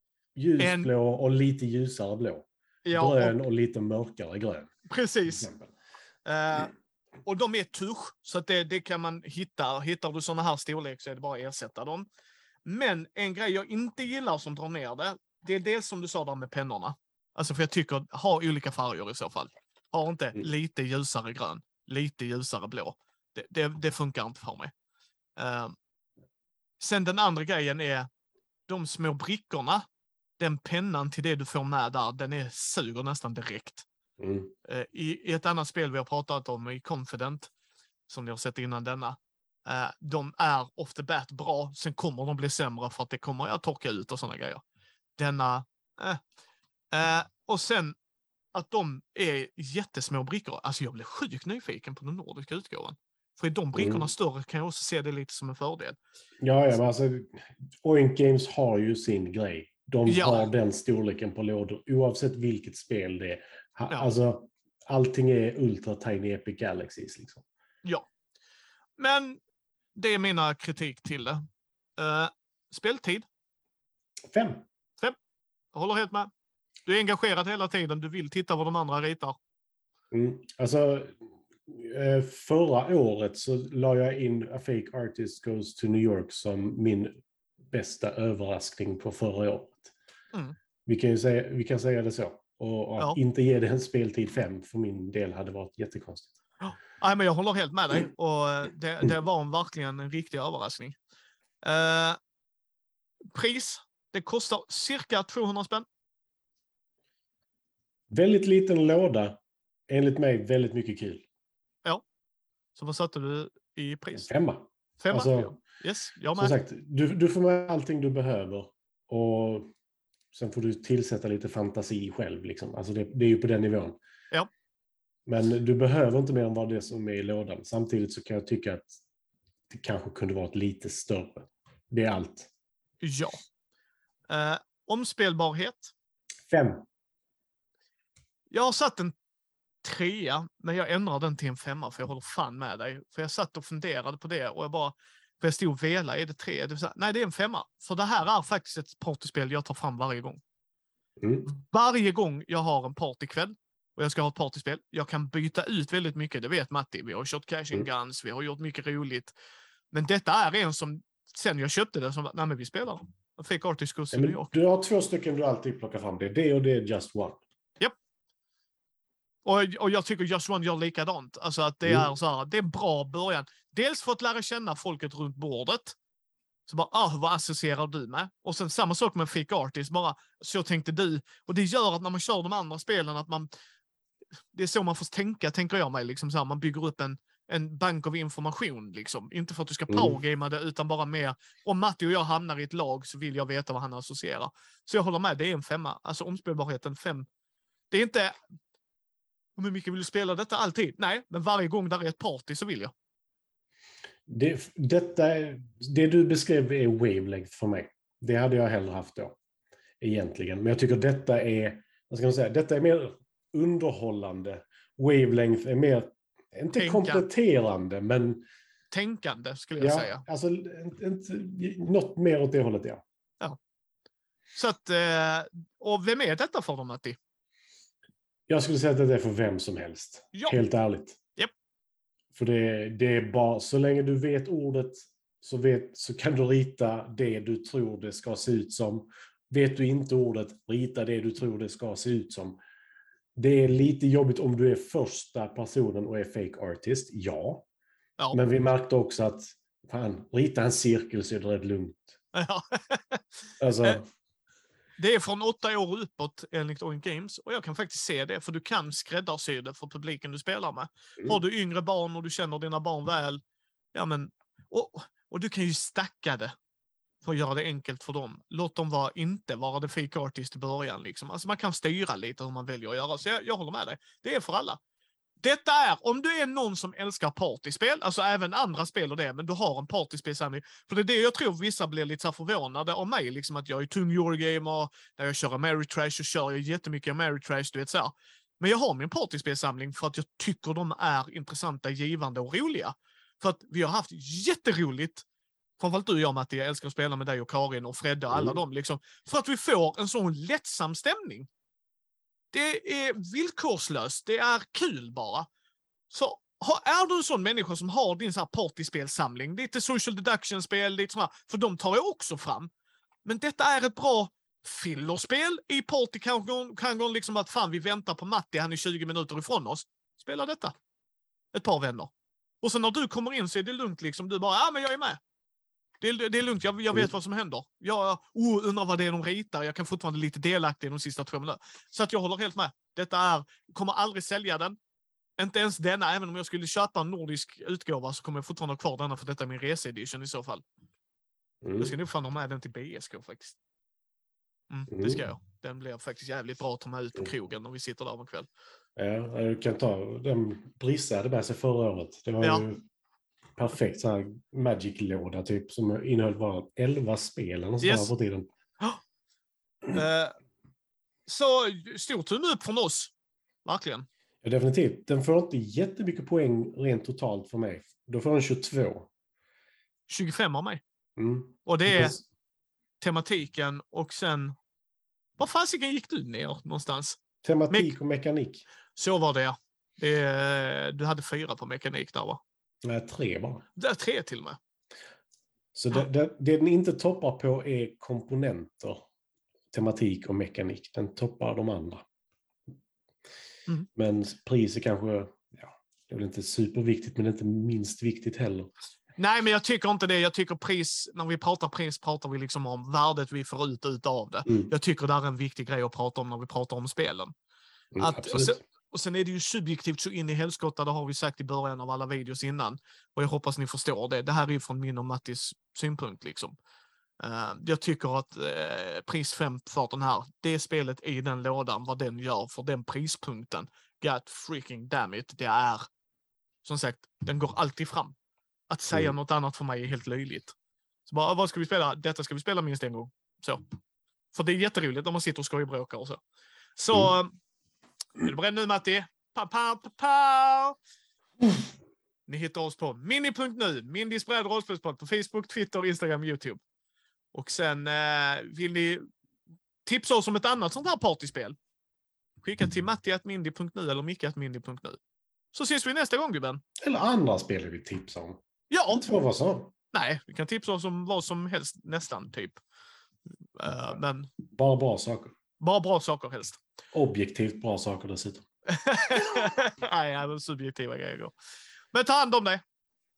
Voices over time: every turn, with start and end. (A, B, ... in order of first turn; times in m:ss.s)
0:00.4-0:04.7 A
0:00.6-0:00.9 B
0:02.8-0:03.4 B
0:04.9-0:05.5 B
0:05.2-0:05.7 A
0:06.3-0:06.7 B
0:07.3-0:12.1 B
0:12.6-0:24.7 B
0:25.4-0:25.8 B
0:26.8-0:28.1 B
0:28.7-0:29.8 B
0:30.4-0:33.9 B
0:34.2-0:34.5 A
0:34.7-0:37.5 B
0:38.1-0:44.6 B
0:45.2-0:46.2 B
0:46.9-0:48.0 B
0:48.5-0:56.0 B
0:53.8-0:54.1 A
0:56.4-1:07.4 A
1:00.1-1:00.5 B
1:09.0-1:09.4 B
1:10.0-1:11.4 B
1:12.0-1:13.3 B
1:14.3-1:14.6 A
1:15.7-1:16.3 B
1:16.9-1:19.4 B
1:20.1-1:21.1 A
1:21.7-1:29.9 A
1:30.9-1:36.3 A
1:36.6-1:41.0 B
1:41.6-1:42.2 B
1:43.3-1:45.8 B
1:48.1-1:49.4 A
1:49.9-1:51.2 A
1:52.8-1:54.3 B
1:54.2-1:55.6 A
1:55.0-1:56.6 B
1:56.4-1:59.7 A
2:00.3-2:04.0 A
2:05.3-2:08.9 A
2:09.7-2:12.5 A
2:13.0-2:13.4 B
2:14.3-2:15.9 B
2:16.5-2:16.8 A
2:18.5-2:19.1 B
2:19.8-2:30.4 B
2:31.2-2:31.5 A
2:31.4-2:39.3 B
2:39.9-2:44.5 B
2:44.1-2:47.4 A
2:49.4-2:56.0 B
2:51.8-2:52.1 A
2:56.7-3:03.5 B
3:04.5-3:17.3 B
3:09.9-3:10.2 A
3:17.9-3:18.4 B
3:19.6-3:22.9 B
3:24.3-3:29.4 A
3:30.0-3:38.4 A
3:36.7-3:37.3 B
3:38.9-3:40.2 B
3:39.8-3:43.0 A
3:44.6-3:47.2 B
3:48.5-3:51.2 A
3:50.3-3:50.6 B
3:52.4-4:02.6 A
4:03.4-4:07.7 A
4:08.3-4:12.1 A
4:12.3-4:14.0 B
4:13.6-4:14.0 A
4:15.0-4:23.4 B
4:23.9-4:26.5 B
4:27.2-4:34.8 B
4:35.4-4:55.2 B
4:55.8-5:01.5 B
4:58.3-4:58.6 A
5:02.5-5:05.5 B
5:06.1-5:12.7 B
5:13.2-5:20.7 B
5:21.5-5:25.2 B
5:26.0-5:34.8 B
5:35.4-5:40.6 B
5:41.6-5:41.9 A
5:41.8-5:43.6 B
5:44.7-5:48.5 B
5:44.9-5:45.2 A
5:49.0-5:52.8 A
5:53.6-5:58.5 A
5:57.8-5:58.1 B
5:59.9-6:00.4 B
6:01.3-6:03.1 B
6:03.6-6:04.1 B
6:04.4-6:09.1 A
6:10.1-6:10.8 B
6:11.2-6:12.2 A
6:11.6-6:12.2 B
6:13.0-6:14.5 B
6:15.4-6:18.0 B
6:17.4-6:18.6 A
6:19.0-6:22.4 B
6:22.8-6:23.6 A
6:23.8-6:24.6 B
6:25.8-6:29.0 A
6:29.7-6:32.0 A
6:34.0-6:38.7 A
6:39.2-6:47.3 B
6:44.5-6:44.7 A
6:48.0-6:48.6 A
6:48.0-6:56.6 B
6:57.2-7:05.8 B
7:06.6-7:08.2 B
7:08.7-7:10.5 B
7:11.1-7:13.6 B
7:14.3-7:16.2 B
7:16.8-7:17.3 B
7:18.2-7:20.8 B
7:22.3-7:26.6 B
7:27.3-7:29.0 B
7:29.8-7:31.6 B
7:32.4-7:35.0 B
7:35.5-7:36.6 B
7:36.8-7:38.4 A
7:38.7-7:39.1 B
7:38.9-7:39.7 A
7:39.9-7:42.6 B
7:43.6-7:44.3 B
7:44.5-7:45.3 A
7:45.6-7:46.6 B
7:46.9-7:48.4 A
7:48.7-7:51.3 B
7:51.9-7:52.6 B